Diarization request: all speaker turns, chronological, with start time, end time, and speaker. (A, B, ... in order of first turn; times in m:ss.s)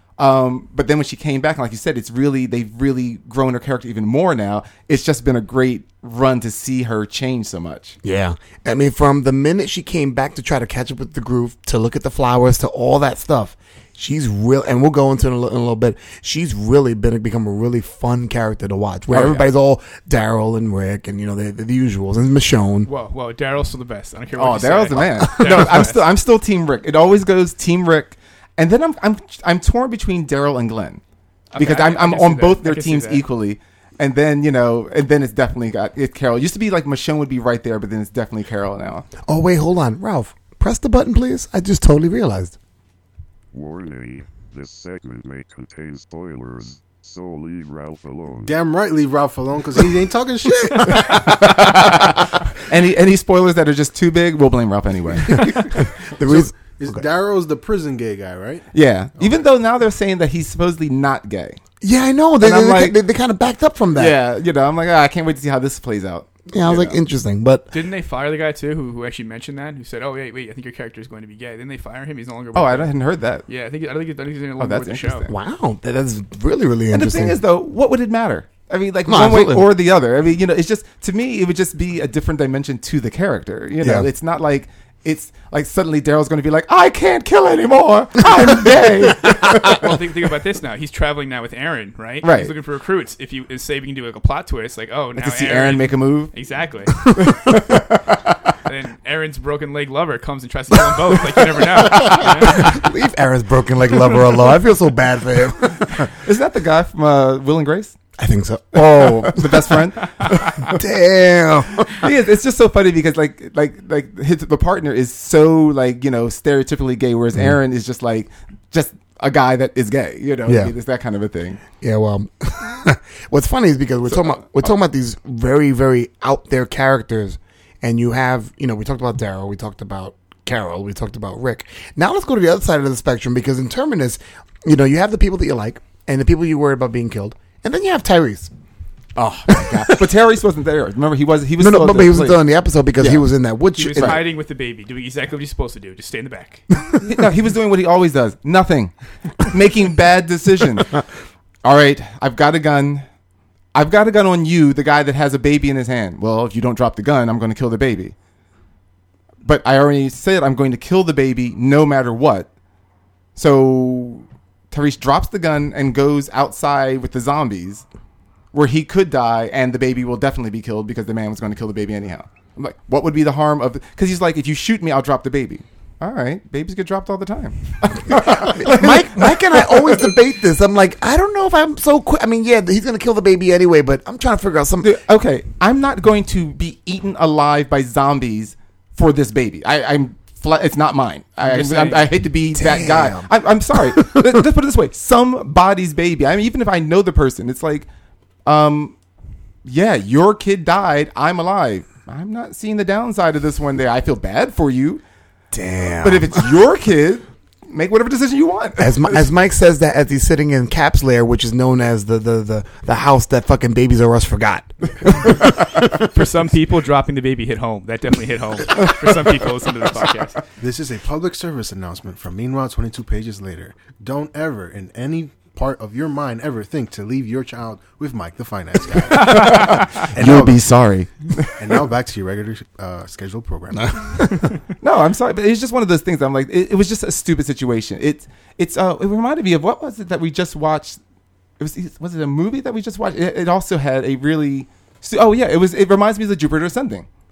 0:00.2-0:08.0 A
0:08.0-0:22.9 B
0:19.1-0:19.5 A
0:22.9-0:26.0 C
0:24.4-0:31.0 A
0:25.4-0:25.7 B
0:31.5-0:33.2 C
0:31.6-0:39.1 A
0:39.3-0:42.6 B
0:43.5-0:48.6 D
0:48.4-0:51.2 E
0:50.7-0:51.9 B
0:50.9-0:55.7 A
0:55.4-0:57.0 B
0:56.2-0:58.7 E
0:58.7-1:01.6 A
1:01.8-1:04.2 B
1:02.4-1:03.0 A
1:03.9-1:07.0 A
1:06.5-1:07.7 B
1:07.7-1:13.0 C
1:12.5-1:13.4 A
1:13.5-1:15.3 C
1:14.6-1:15.3 A
1:15.3-1:17.4 B
1:16.9-1:30.0 A
1:19.1-1:19.7 B
1:23.8-1:24.1 B
1:29.6-1:37.0 C
1:32.2-1:32.5 A
1:35.2-1:36.3 A
1:37.2-1:38.2 A
1:38.6-1:42.8 C
1:41.8-1:46.1 B
1:46.2-1:48.0 A
1:48.2-1:52.1 B
1:48.8-1:50.6 A
1:51.9-2:01.6 A
2:00.5-2:00.7 B
2:01.8-2:18.5 B
2:04.1-2:04.7 A
2:19.2-2:22.4 A
2:19.5-2:20.0 B
2:21.6-2:24.2 B
2:23.0-2:23.2 A
2:23.8-2:26.6 C
2:24.0-2:24.2 A
2:27.0-2:28.9 A
2:29.4-2:30.9 A
2:31.6-2:33.0 A
2:33.7-2:38.1 A
2:39.4-2:42.5 A
2:43.4-2:47.8 A
2:48.5-3:00.1 A
2:58.1-3:05.0 B
3:04.8-3:17.9 A
3:11.4-3:12.1 C
3:12.6-3:14.4 B
3:18.5-3:19.0 A
3:19.6-3:25.0 A
3:25.5-3:26.5 B
3:26.0-3:29.2 A
3:28.8-3:35.8 B
3:35.9-3:40.4 C
3:40.6-3:50.6 E
3:49.1-3:51.6 A
3:51.6-3:54.4 E
3:53.8-3:54.4 B
3:54.8-4:01.0 A
4:01.6-4:07.1 A